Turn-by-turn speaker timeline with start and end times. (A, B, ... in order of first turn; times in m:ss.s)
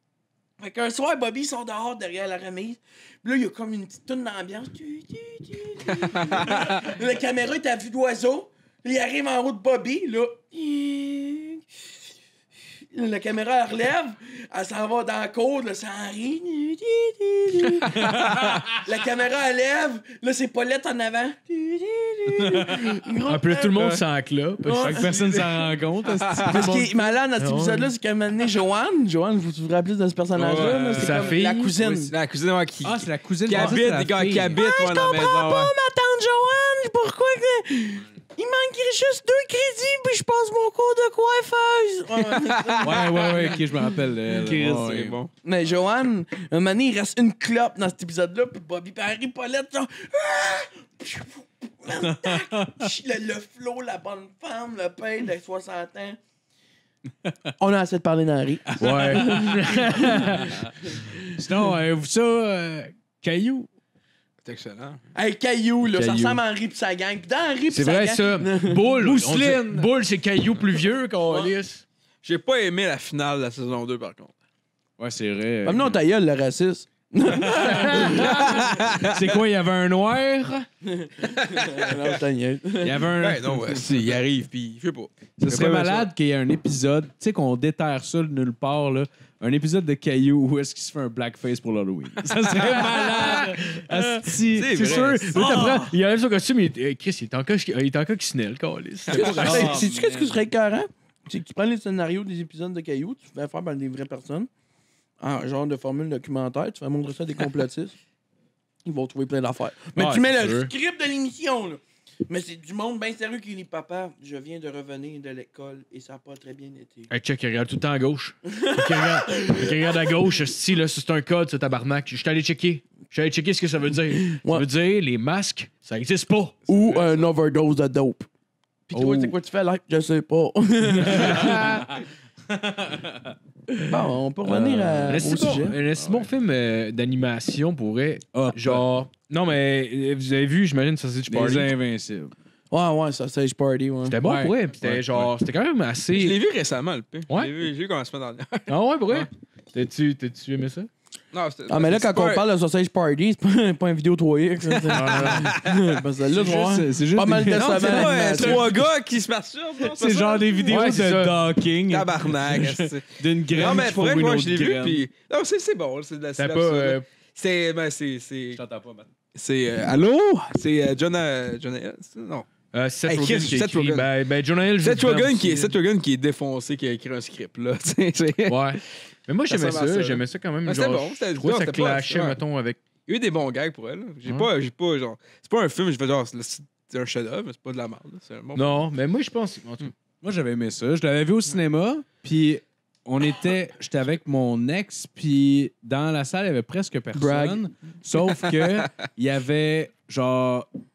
0:00.6-0:11.6 A
0:06.1-0:06.8 B
0:12.9-0:24.0 A
0:22.4-0:22.9 C
0:23.2-0:25.1 D
0:24.6-0:25.4 A
0:24.8-0:26.9 C
0:26.1-0:26.7 B
0:26.5-0:32.1 A
0:27.4-0:27.9 D
0:30.4-0:35.7 B
0:30.5-0:31.0 C
0:30.9-0:31.8 D
0:32.8-0:34.6 C
0:34.5-0:43.6 A
0:42.2-0:43.1 B
0:42.8-0:45.2 C
0:44.3-0:45.3 B
0:45.4-0:56.2 A
0:52.1-0:52.7 C
0:57.6-1:00.3 A
0:58.8-1:00.7 D
0:58.9-0:59.8 C
1:00.9-1:01.2 A
1:01.3-1:03.7 C
1:04.4-1:05.0 B
1:05.2-1:08.9 A
1:05.9-1:06.4 D
1:07.7-1:11.8 D
1:09.0-1:09.9 B
1:12.2-1:14.3 B
1:15.0-1:16.0 C
1:15.6-1:18.7 A
1:17.6-1:18.3 C
1:17.9-1:18.5 D
1:18.3-1:19.1 B
1:19.0-1:20.7 C
1:20.9-1:23.0 A
1:21.3-1:21.9 B
1:22.8-1:24.1 C
1:23.2-1:25.1 B
1:25.4-1:36.0 C
1:25.5-1:26.1 D
1:32.6-1:39.9 D
1:34.5-1:35.4 B
1:39.1-1:44.5 A
1:39.1-1:40.3 C
1:39.2-1:39.9 B
1:45.2-1:48.0 A
1:48.8-1:57.1 A
1:50.0-1:50.7 D
1:57.1-2:06.6 D
1:58.5-2:00.1 A
2:04.3-2:04.7 A
2:06.7-2:08.3 A
2:08.9-2:11.8 A
2:09.0-2:09.3 D
2:09.0-2:09.3 C
2:11.1-2:13.4 C
2:11.2-2:11.8 D
2:13.9-2:15.8 A
2:14.4-2:16.3 C
2:15.1-2:21.7 D
2:18.3-2:18.8 C
2:21.3-2:22.3 C
2:22.7-2:24.2 A
2:24.0-2:26.4 D
2:24.2-2:25.3 C
2:26.1-2:29.3 B
2:27.3-2:27.5 D
2:28.7-2:30.9 D
2:31.3-2:32.5 B
2:31.7-2:38.7 A
2:34.7-2:36.0 B
2:34.9-2:35.5 D
2:36.3-2:38.8 C
2:37.5-2:40.7 B
2:39.8-2:45.0 C
2:40.7-2:41.4 D
2:41.9-2:48.6 B
2:46.4-2:47.1 D
2:48.6-2:49.1 C
2:49.4-2:52.5 B
2:52.7-2:55.8 D
2:53.1-2:54.1 B
2:54.8-2:58.8 B
2:58.5-3:02.8 D
2:59.5-3:02.4 B
3:03.1-3:08.7 B
3:08.6-3:09.9 D
3:10.2-3:20.7 C
3:17.1-3:17.6 A